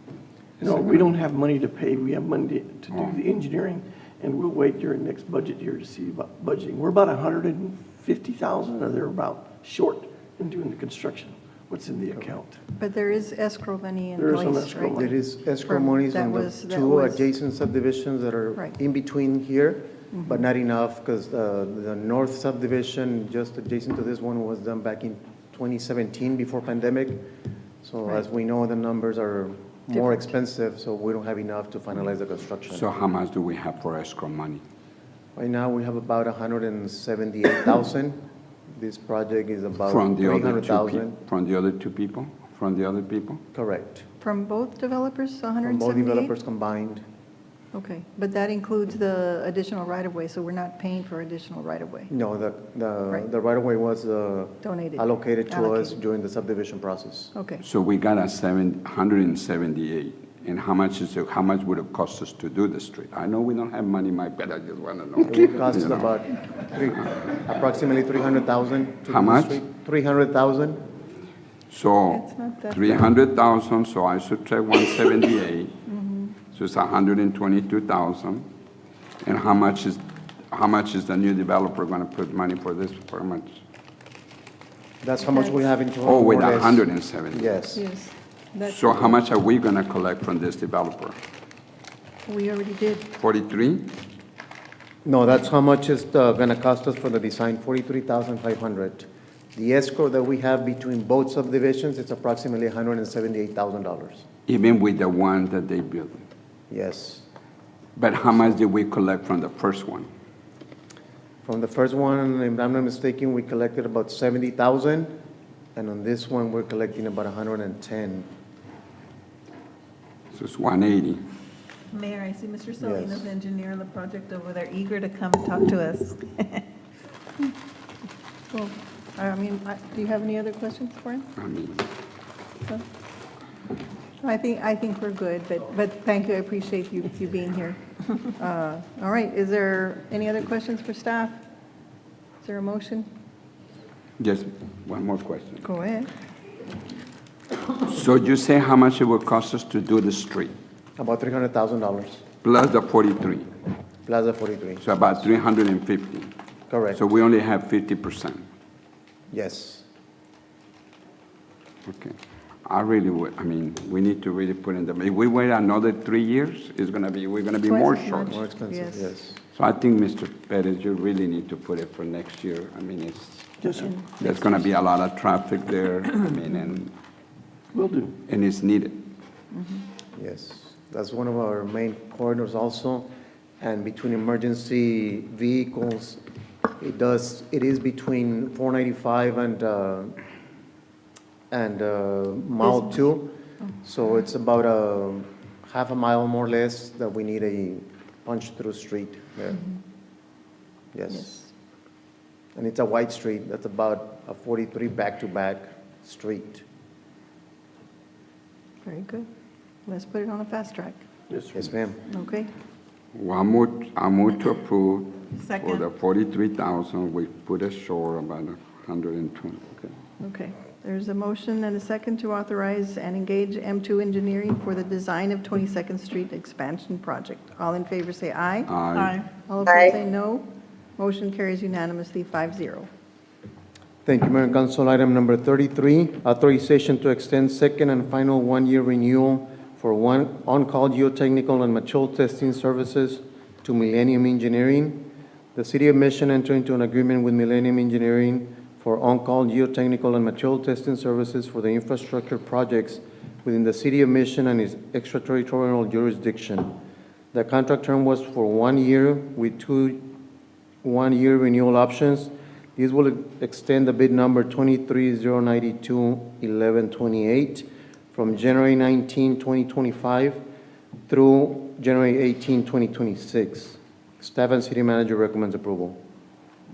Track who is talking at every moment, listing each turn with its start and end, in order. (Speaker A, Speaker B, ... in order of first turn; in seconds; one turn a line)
Speaker A: 0.6-12.6
Speaker B: 12.8-17.2
Speaker A: 14.2-15.1
Speaker C: 14.9-27.3
Speaker B: 20.1-20.4
Speaker C: 27.8-32.9
Speaker B: 29.9-30.2
Speaker D: 32.7-34.6
Speaker C: 35.4-38.2
Speaker C: 38.7-41.2
Speaker D: 39.9-43.4
Speaker C: 43.5-44.0
Speaker B: 44.2-46.3
Speaker C: 45.6-47.0
Speaker B: 47.7-52.1
Speaker C: 52.1-57.3
Speaker B: 54.6-56.0
Speaker B: 57.3-57.6
Speaker D: 57.6-66.1
Speaker C: 65.2-70.8
Speaker D: 69.1-69.6
Speaker D: 71.7-75.8
Speaker B: 72.1-73.0
Speaker B: 75.9-76.3
Speaker D: 76.5-78.5
Speaker D: 79.2-83.6
Speaker C: 85.0-87.8
Speaker B: 85.2-85.6
Speaker D: 86.0-87.6
Speaker B: 87.7-88.8
Speaker D: 88.6-91.2
Speaker B: 92.3-93.1
Speaker D: 93.2-93.9
Speaker C: 95.0-104.2
Speaker D: 104.5-106.2
Speaker C: 106.7-107.3
Speaker D: 108.0-110.1
Speaker C: 111.4-115.1
Speaker C: 115.7-118.3
Speaker D: 120.3-121.2
Speaker E: 121.9-126.6
Speaker C: 122.8-123.3
Speaker B: 128.5-131.3
Speaker D: 131.4-131.9
Speaker B: 134.2-141.4
Speaker B: 142.4-143.1
Speaker D: 144.2-145.6
Speaker B: 145.6-146.1
Speaker D: 147.8-150.5
Speaker C: 151.0-152.2
Speaker D: 152.4-153.5
Speaker C: 154.1-155.1
Speaker D: 154.8-156.3
Speaker C: 156.7-157.0
Speaker D: 156.9-158.4
Speaker C: 159.3-159.8
Speaker D: 161.8-168.4
Speaker B: 167.7-169.1
Speaker C: 168.2-169.4
Speaker D: 169.5-173.5
Speaker A: 173.6-173.9
Speaker B: 173.7-174.4
Speaker D: 174.2-176.9
Speaker A: 177.7-178.2
Speaker D: 178.2-179.0
Speaker B: 179.5-179.8
Speaker C: 180.1-183.1
Speaker C: 183.6-186.2
Speaker C: 186.8-190.2
Speaker C: 191.5-199.6
Speaker B: 192.6-192.9
Speaker C: 200.9-201.4
Speaker B: 201.1-201.5
Speaker C: 202.5-206.6
Speaker B: 208.8-209.3
Speaker B: 209.9-211.0
Speaker A: 211.3-211.6
Speaker C: 211.5-212.0
Speaker B: 212.1-212.5
Speaker D: 213.1-219.9
Speaker E: 215.3-215.8
Speaker B: 220.2-230.4
Speaker D: 228.7-229.2
Speaker B: 231.0-232.9
Speaker C: 234.0-245.0
Speaker C: 245.5-256.8
Speaker C: 257.3-260.0
Speaker C: 260.8-270.4
Speaker C: 271.1-276.0